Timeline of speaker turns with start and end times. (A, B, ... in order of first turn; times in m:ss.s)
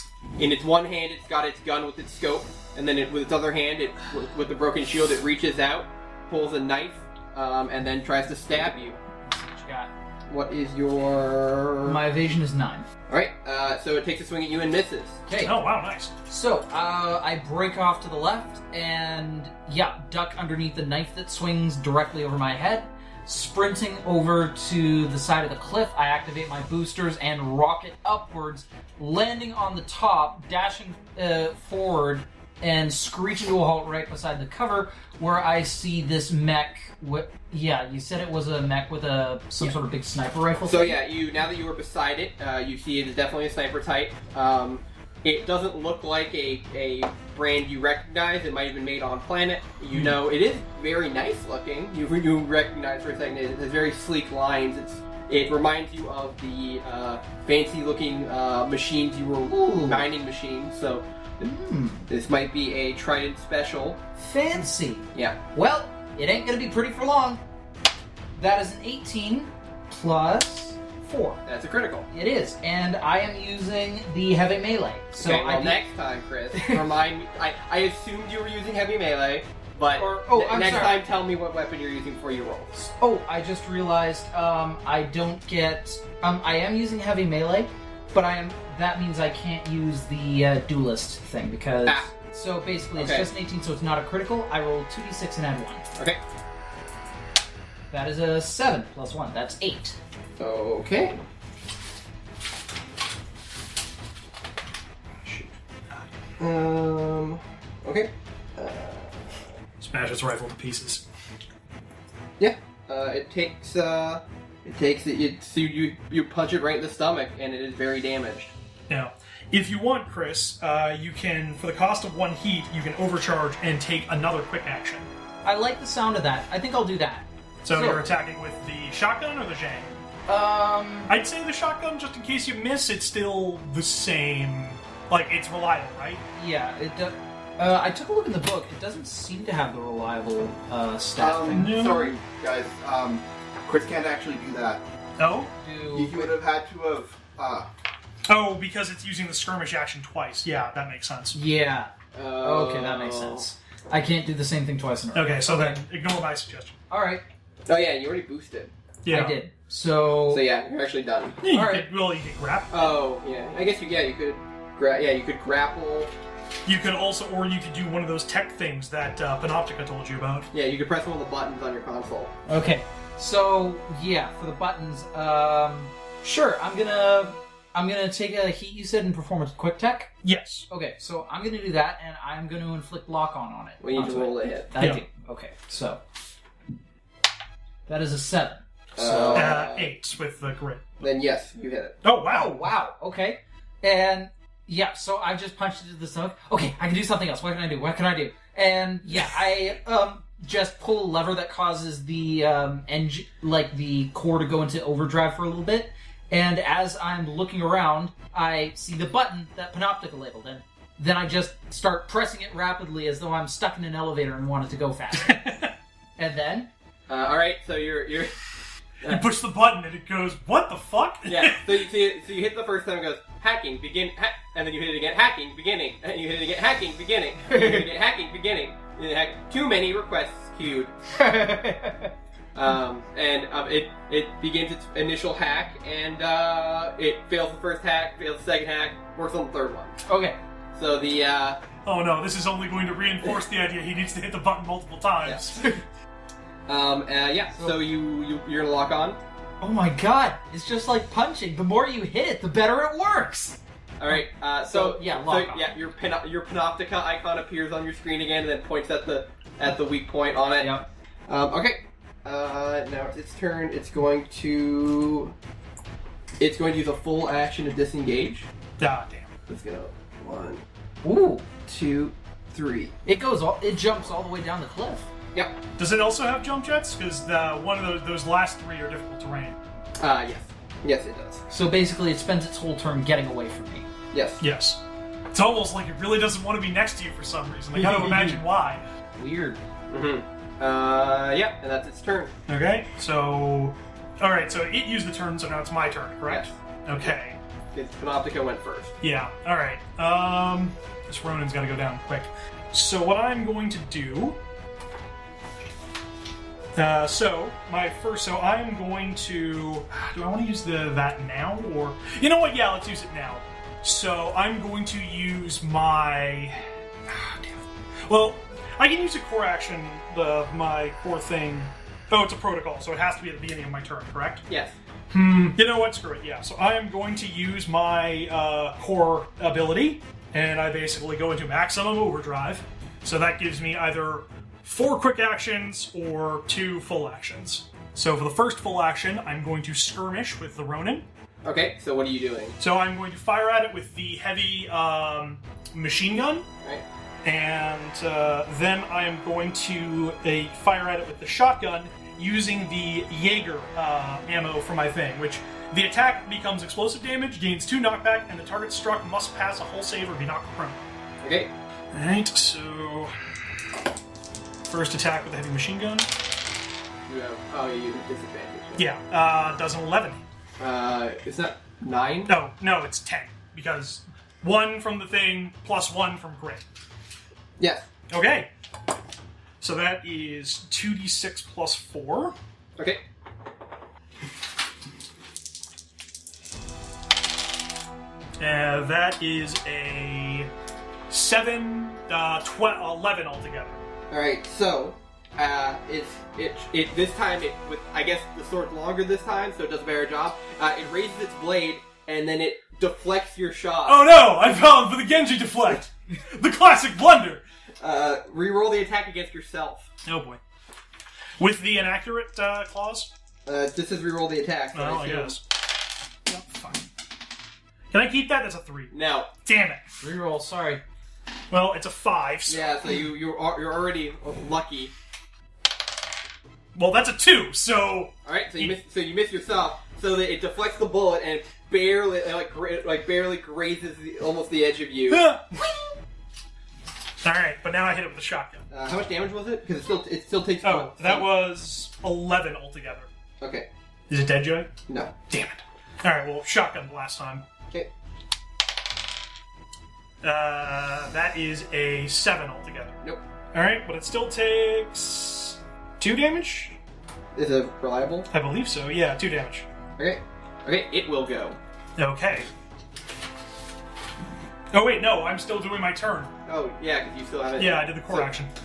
0:00.4-0:09.0 A
0:09.3-0:09.9 B
0:10.3-0:12.0 A
0:11.8-0:12.9 B
0:13.1-0:15.2 A
0:15.3-0:15.6 B
0:15.4-0:16.1 C
0:16.3-0:41.0 B
0:40.7-1:01.0 A
0:59.5-1:00.1 B
1:01.4-1:02.1 B
1:02.1-1:04.0 A
1:04.2-1:07.4 B
1:05.1-1:05.4 A
1:08.4-1:11.4 B
1:11.5-1:12.1 A
1:12.1-1:15.8 B
1:15.2-1:22.9 A
1:20.0-1:21.0 B
1:22.8-1:35.8 B
1:31.9-1:32.1 A
1:33.0-1:33.3 A
1:37.9-1:40.0 B
1:40.4-1:41.2 A
1:45.2-1:45.5 A
1:46.4-1:49.4 A
1:49.8-1:51.1 C
1:52.4-1:58.5 A
1:58.9-2:05.1 C
2:05.4-2:08.1 B
2:07.6-2:10.0 C
2:10.3-2:11.1 B
2:11.1-2:16.2 C
2:16.4-2:21.8 B
2:21.2-2:21.6 A
2:21.2-2:24.8 D
2:21.5-2:22.2 C
2:25.2-2:25.5 C
2:25.6-2:26.4 B
2:25.9-2:27.7 D
2:28.3-2:31.4 C
2:31.3-2:35.8 B
2:32.1-2:33.5 A
2:35.1-2:36.8 C
2:36.9-2:37.2 B
2:37.7-2:38.7 A
2:39.0-2:39.4 C
2:39.1-2:40.4 B
2:40.3-2:41.4 A
2:41.4-2:43.0 C
2:41.5-2:41.9 B
2:42.7-2:46.1 A
2:46.6-2:50.5 C
2:50.5-2:52.3 A
2:52.5-3:00.1 B
3:00.2-3:00.7 C
3:00.7-3:06.0 B
3:03.8-3:04.7 A
3:04.8-3:05.0 C
3:07.9-3:09.6 B
3:09.0-3:09.9 A
3:09.3-3:11.0 C
3:11.0-3:12.0 A
3:12.0-3:12.7 C
3:12.3-3:35.4 B
3:35.2-3:35.7 C
3:36.2-3:36.7 B
3:37.1-3:38.4 A
3:39.0-3:41.8 C
3:41.2-3:50.9 A
3:47.5-3:47.9 B
3:51.1-3:52.1 B
3:52.5-4:00.0 A
4:00.1-4:00.4 B
4:00.7-4:01.6 A
4:01.8-4:05.6 C
4:06.7-4:09.2 A
4:09.6-4:15.7 B
4:14.0-4:20.7 A
4:20.6-4:20.9 B
4:21.3-4:25.3 A
4:26.4-4:28.5 A
4:28.8-4:29.3 C
4:29.5-4:30.6 A
4:31.0-4:31.5 B
4:31.6-4:33.0 A
4:33.1-4:35.1 B
4:35.8-4:39.6 C
4:40.0-4:41.4 A
4:41.5-4:43.9 B
4:44.1-4:44.4 A
4:44.4-4:48.9 C
4:47.8-4:48.4 B
4:49.2-4:49.6 B
4:49.9-4:52.3 A
4:52.5-4:57.4 C
4:56.3-4:57.1 A
4:57.7-4:58.9 A
4:59.0-5:04.4 C
5:06.8-5:24.4 C
5:24.5-5:24.8 A
5:25.1-5:41.1 C
5:41.4-5:42.6 A
5:42.6-5:46.5 C
5:47.2-6:00.8 C
6:01.2-6:01.5 A
6:01.9-6:03.1 C
6:04.7-6:06.1 C
6:07.1-6:08.9 A
6:08.8-6:10.2 C
6:10.6-6:12.4 A
6:12.3-6:16.6 C
6:17.6-6:17.9 A
6:18.1-6:18.5 C
6:19.6-6:22.4 C
6:22.8-6:23.0 A
6:28.4-6:30.5 C
6:31.1-6:33.8 C
6:34.1-6:44.1 A
6:43.9-6:47.4 C
6:47.8-6:49.9 A
6:50.1-6:50.4 C
6:51.4-6:53.1 C
6:53.5-6:55.4 A
6:54.7-6:55.4 C
6:56.3-6:56.8 C
6:57.9-6:58.9 C
6:58.9-6:59.3 A
6:59.4-6:59.9 C
7:00.0-7:00.8 B
7:01.5-7:02.7 C
7:02.5-7:04.9 A
7:06.8-7:08.8 C
7:08.2-7:15.3 A
7:15.1-7:15.8 C
7:17.2-7:18.6 C
7:18.7-7:21.3 A
7:20.6-7:23.1 C
7:23.4-7:23.7 A
7:24.1-7:24.7 C
7:24.9-7:25.2 A
7:25.3-7:27.4 C
7:30.2-7:33.0 C
7:33.5-7:36.8 C
7:37.4-7:38.3 A
7:38.3-7:39.7 C
7:40.0-7:41.6 A
7:42.0-7:42.5 C
7:44.7-7:46.3 C
7:46.5-7:48.3 A
7:47.6-7:48.5 C